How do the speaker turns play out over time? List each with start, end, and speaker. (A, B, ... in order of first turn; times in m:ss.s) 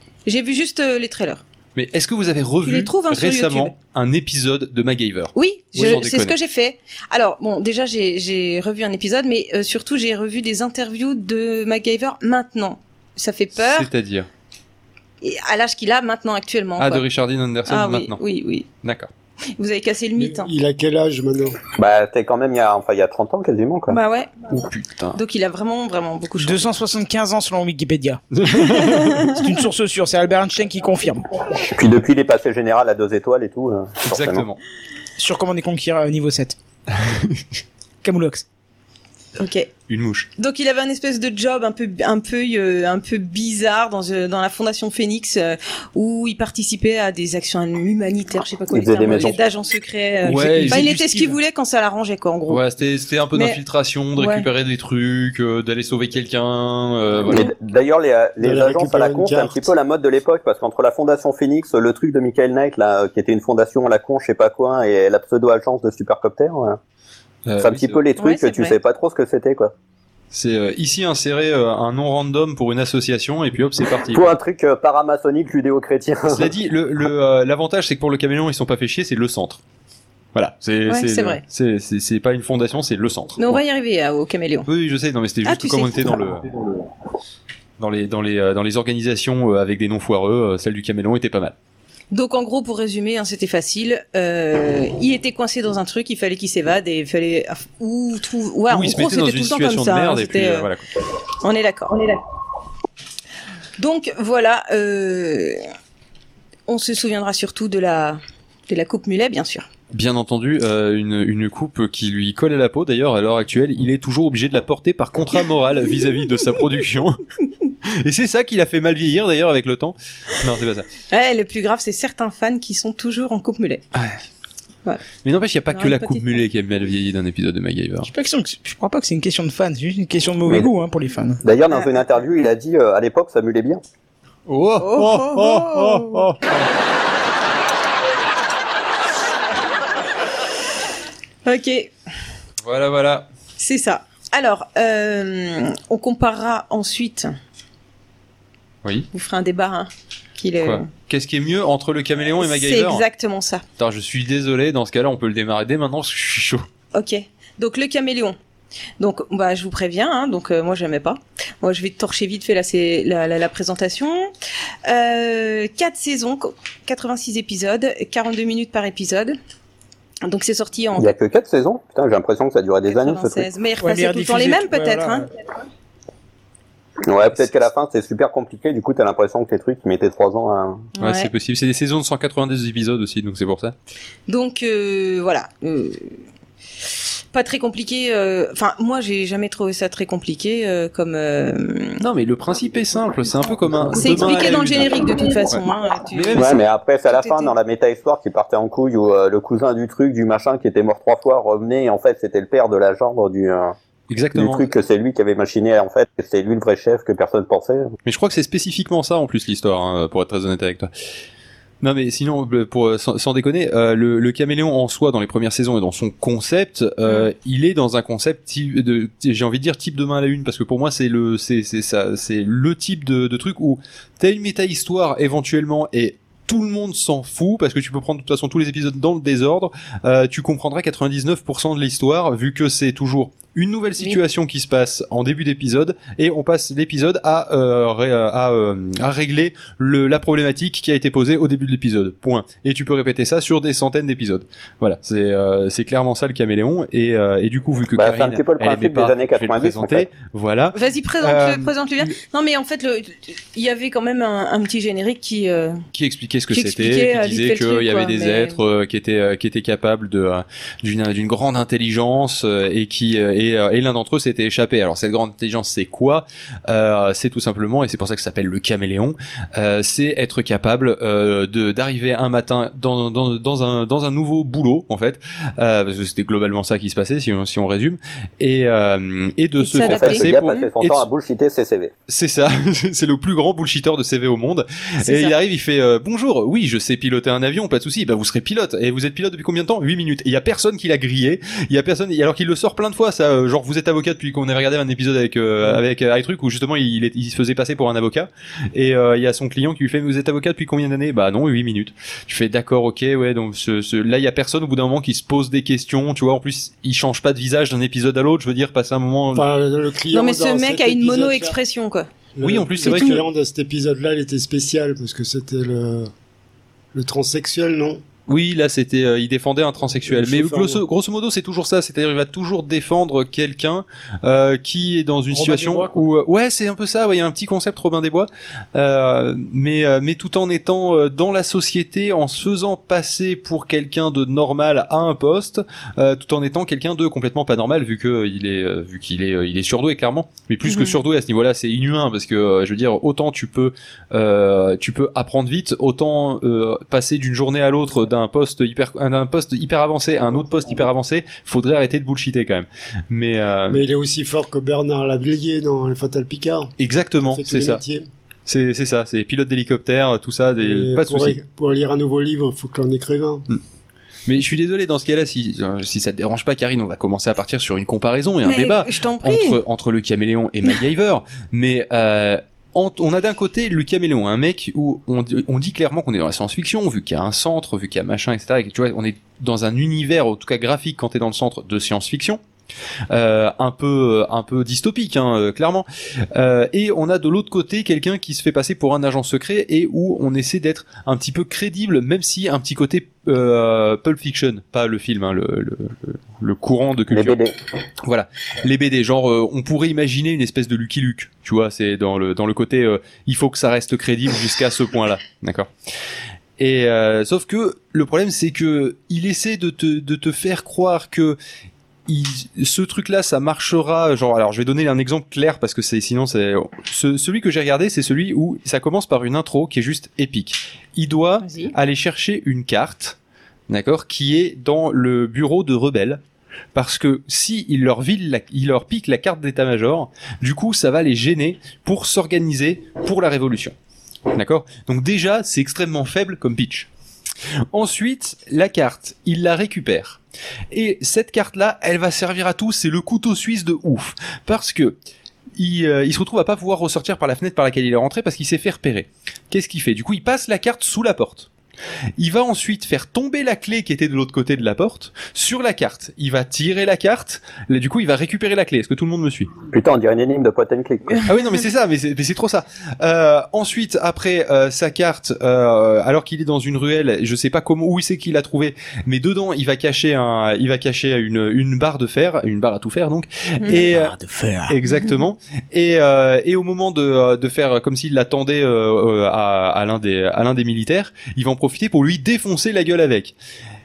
0:00.3-0:01.4 A
0:01.8-0:06.4 B
0:02.6-0:03.7 A
0:05.4-0:13.9 A
0:13.6-0:14.3 B
0:15.2-0:17.1 A
0:16.8-0:18.2 B
0:17.7-0:18.7 A
0:18.8-0:19.1 B
0:19.6-0:20.5 A
0:20.2-0:21.6 C
0:21.8-0:24.0 D
0:23.9-0:24.5 A
0:24.5-0:25.2 B
0:25.2-0:26.7 A
0:26.4-0:31.2 E
0:28.4-0:29.1 B
0:28.7-0:29.1 A
0:31.6-0:34.4 D
0:34.0-0:34.6 B
0:35.2-0:36.6 E
0:37.0-0:37.4 B
0:38.0-0:38.5 E
0:39.4-0:39.7 A
0:39.9-0:40.3 B
0:40.4-0:52.6 A
0:48.7-0:49.4 D
0:50.2-0:51.3 B
0:50.3-0:51.0 E
0:52.5-0:57.5 B
0:53.3-0:53.6 A
0:54.2-0:54.5 A
0:57.3-1:06.8 D
0:58.4-0:59.7 C
1:07.5-1:08.0 B
1:07.6-1:09.7 D
1:08.2-1:08.8 A
1:10.3-1:14.3 B
1:14.1-1:16.5 D
1:16.3-1:19.6 B
1:20.3-1:23.6 B
1:20.9-1:21.4 A
1:23.4-1:24.7 A
1:24.7-1:26.6 B
1:25.4-1:26.2 A
1:27.8-1:31.6 B
1:32.1-1:40.7 A
1:38.7-1:40.9 B
1:41.4-1:42.0 A
1:43.8-1:45.6 A
1:46.7-1:49.7 A
1:49.9-1:57.2 B
1:57.9-2:00.9 B
2:01.1-2:03.8 A
2:03.9-2:04.2 B
2:05.2-2:08.1 B
2:05.7-2:06.4 A
2:08.0-2:11.4 E
2:11.4-2:13.8 D
2:14.5-2:16.3 B
2:14.8-2:16.3 A
2:21.4-2:21.9 A
2:22.6-2:23.3 B
2:23.6-2:27.3 A
2:28.8-2:29.1 B
2:29.1-2:30.9 A
2:30.6-2:33.0 B
2:32.4-2:33.6 A
2:33.8-2:36.7 B
2:36.9-2:38.4 A
2:39.0-2:44.3 A
2:44.9-2:49.4 A
2:50.2-2:51.1 A
2:51.0-2:53.5 D
2:52.9-2:55.3 A
2:53.8-2:55.3 E
2:57.1-3:00.9 D
3:01.0-3:01.3 A
3:01.0-3:03.8 B
3:04.3-3:06.2 A
3:07.3-3:12.0 A
3:12.0-3:16.6 B
3:13.9-3:16.5 A
3:16.3-3:23.8 D
3:17.1-3:17.5 A
3:24.1-3:24.7 B
3:24.3-3:27.9 D
3:28.1-3:30.9 B
3:31.8-4:12.2 B
4:08.0-4:10.1 D
4:10.8-4:15.8 A
4:15.9-4:41.0 B
4:16.5-4:18.6 A
4:39.6-4:40.6 A
4:39.8-4:41.9 D
4:42.1-5:09.5 B
4:45.0-4:45.4 A
5:09.3-5:11.6 C
5:10.1-5:12.1 A
5:12.4-5:16.1 C
5:12.4-5:13.2 B
5:12.8-5:13.2 A
5:16.9-5:18.0 C
5:18.3-5:53.8 B
5:20.1-5:20.8 C
5:25.4-5:25.9 E
5:40.7-5:41.0 A
5:53.7-5:58.1 C
5:56.8-5:57.8 B
5:58.5-6:01.4 B
6:00.6-6:03.5 C
6:04.3-6:22.4 B
6:08.4-6:09.6 A
6:23.1-6:37.4 B
6:37.1-6:37.5 D
6:38.0-6:45.7 B
6:46.6-6:51.4 B
6:52.1-7:03.2 B
7:01.4-7:01.7 A
7:03.7-7:06.2 B
7:06.7-7:13.8 B
7:14.3-7:16.9 B
7:17.7-7:20.2 B
7:20.7-7:25.0 B
7:25.6-7:31.5 B
7:32.2-7:39.5 B
7:39.7-7:41.2 D
7:41.2-7:54.2 B
7:53.6-7:53.9 A
7:53.7-7:54.8 E
7:54.7-8:03.4 B